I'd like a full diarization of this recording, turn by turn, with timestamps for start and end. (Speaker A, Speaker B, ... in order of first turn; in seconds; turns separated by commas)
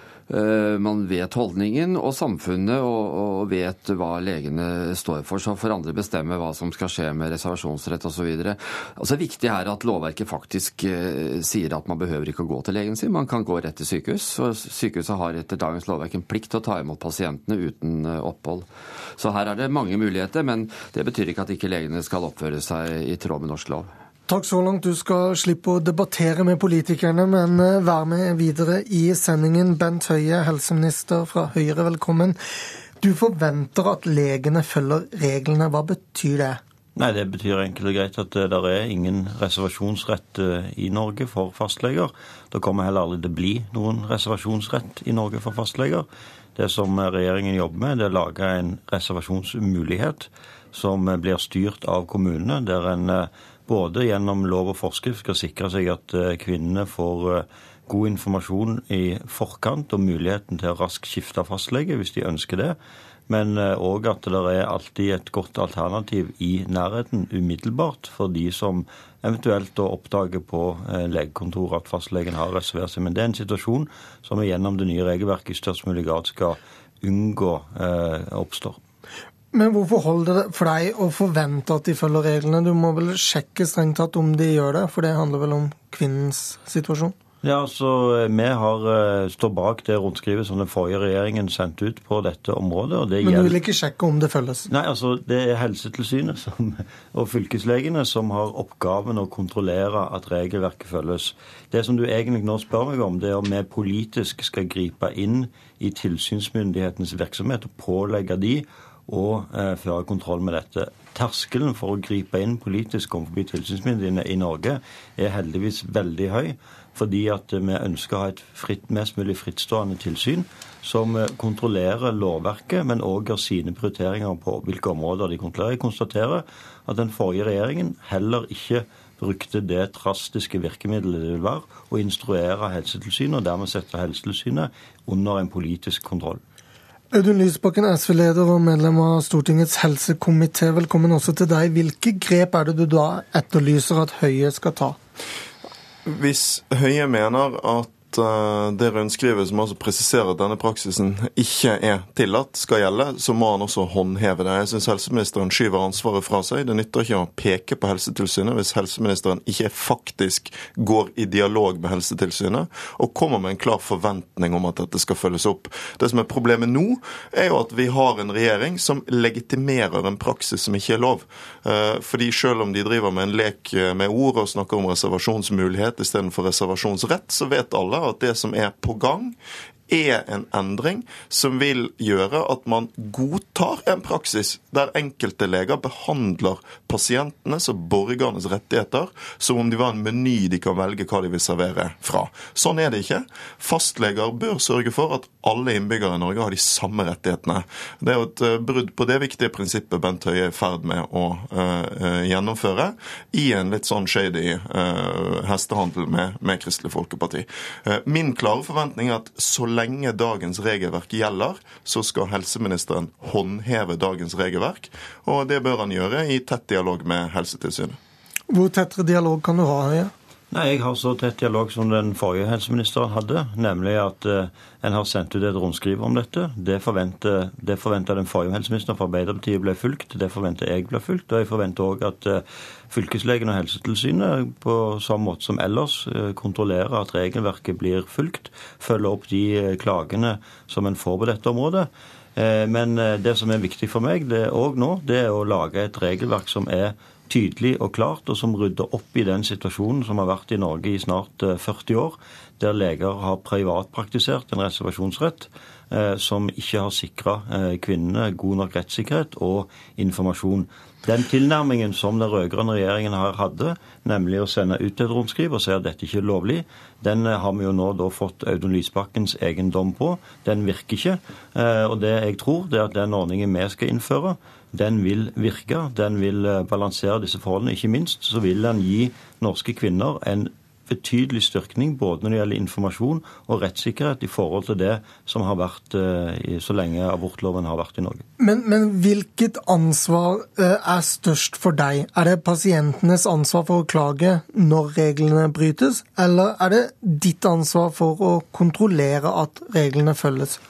Speaker A: 0.3-18.7, Speaker A: 19.2-23.9, Speaker B: 24.3-32.4, Speaker B: 33.0-36.6, Speaker C: 37.0-62.8, Speaker C: 63.3-78.8, Speaker B: 79.5-87.1, Speaker C: 87.4-93.6, Speaker B: 93.2-94.7, Speaker C: 94.7-136.4, Speaker B: 137.1-145.0, Speaker D: 146.1-179.3, Speaker D: 179.9-218.0, Speaker B: 218.5-220.1, Speaker C: 220.5-288.2, Speaker B: 288.4-300.6